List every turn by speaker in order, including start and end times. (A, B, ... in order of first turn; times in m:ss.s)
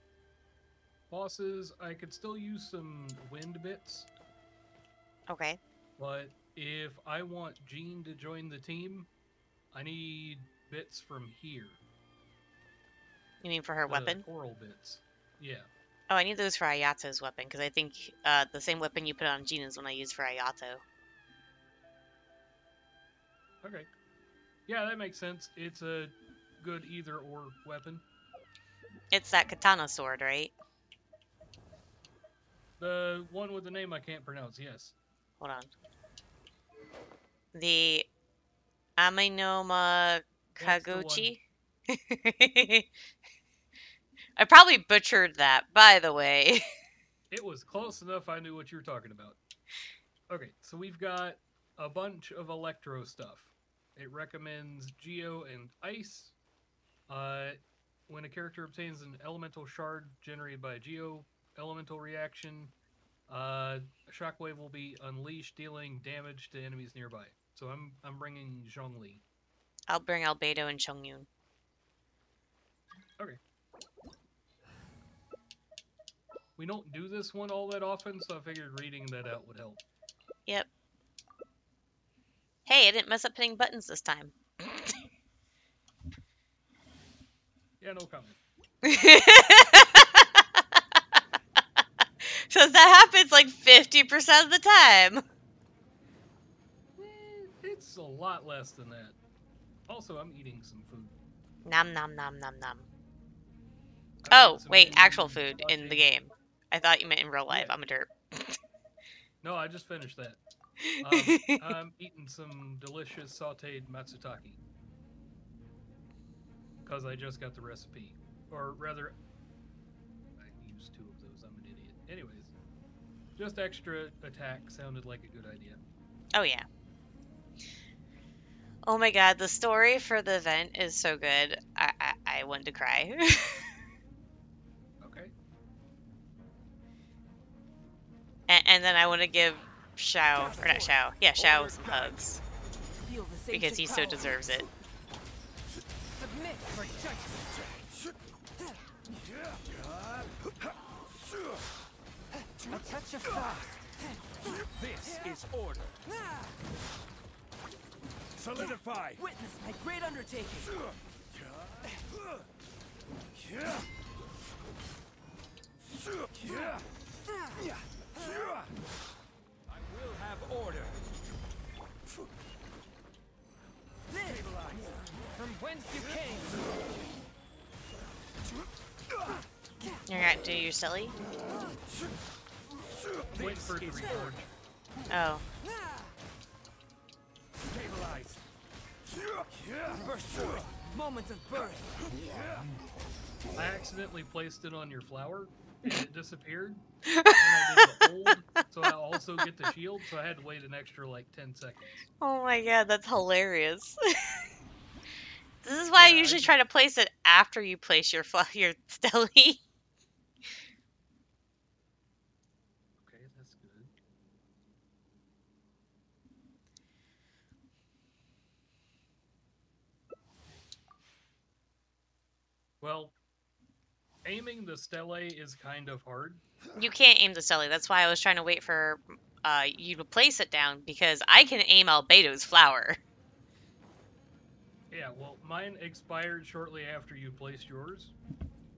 0:01.1-0:04.1 A
0:05.3-0:05.6 B
0:06.0-0:09.1 A
0:09.7-0:11.8 A
0:13.4-0:14.2 B
0:13.9-0:15.7 A
0:16.1-0:20.8 B
0:23.6-0:23.9 A
0:24.7-0:28.0 A
0:29.1-0:30.5 B
0:32.8-0:34.9 A
0:35.4-0:35.7 B
0:37.5-0:38.1 B
0:39.0-0:42.9 B
0:40.6-0:41.4 A
0:44.4-0:46.6 B
0:47.3-0:49.4 A
0:50.3-0:56.4 A
0:57.1-1:02.7 A
1:03.3-1:09.2 A
1:09.9-1:11.3 B
1:16.6-1:19.8 A
1:22.7-1:24.9 B
1:27.8-1:28.4 A
1:28.8-1:30.8 B
1:32.2-1:35.2 B
1:37.0-1:39.2 A
1:39.9-1:41.2 A
1:41.6-1:42.9 B
1:44.2-1:46.1 A
1:44.3-1:48.6 B
1:47.5-1:47.8 A
1:49.4-1:50.4 A
1:50.8-1:51.7 B
1:51.0-1:54.6 A
1:56.8-1:59.2 A
2:00.4-2:02.5 A
2:03.4-2:05.8 A
2:06.3-2:06.7 B
2:08.8-2:13.6 B
2:15.0-2:15.3 A
2:18.5-2:22.4 B
2:21.4-2:22.1 C
2:23.1-2:24.4 D
2:23.5-2:24.7 B
2:26.2-2:27.5 D
2:29.7-2:30.3 C
2:32.6-2:33.9 D
2:34.7-2:36.0 C
2:38.5-2:40.8 D
2:41.4-2:42.2 C
2:49.7-2:51.0 C
2:54.3-2:54.9 C
2:55.3-2:56.7 D
3:00.1-3:01.2 B
3:03.3-3:04.5 A
3:05.1-3:05.4 B
3:07.9-3:08.3 C
3:09.9-3:12.0 D
3:13.6-3:16.8 A
3:17.1-3:18.0 B
3:17.4-3:22.1 A
3:22.2-3:24.0 B
3:25.6-3:29.6 B
3:25.9-3:26.6 A
3:33.0-3:33.9 A
3:42.8-3:43.2 A
3:44.2-3:46.4 A
3:46.8-3:53.0 B
3:54.9-3:58.1 A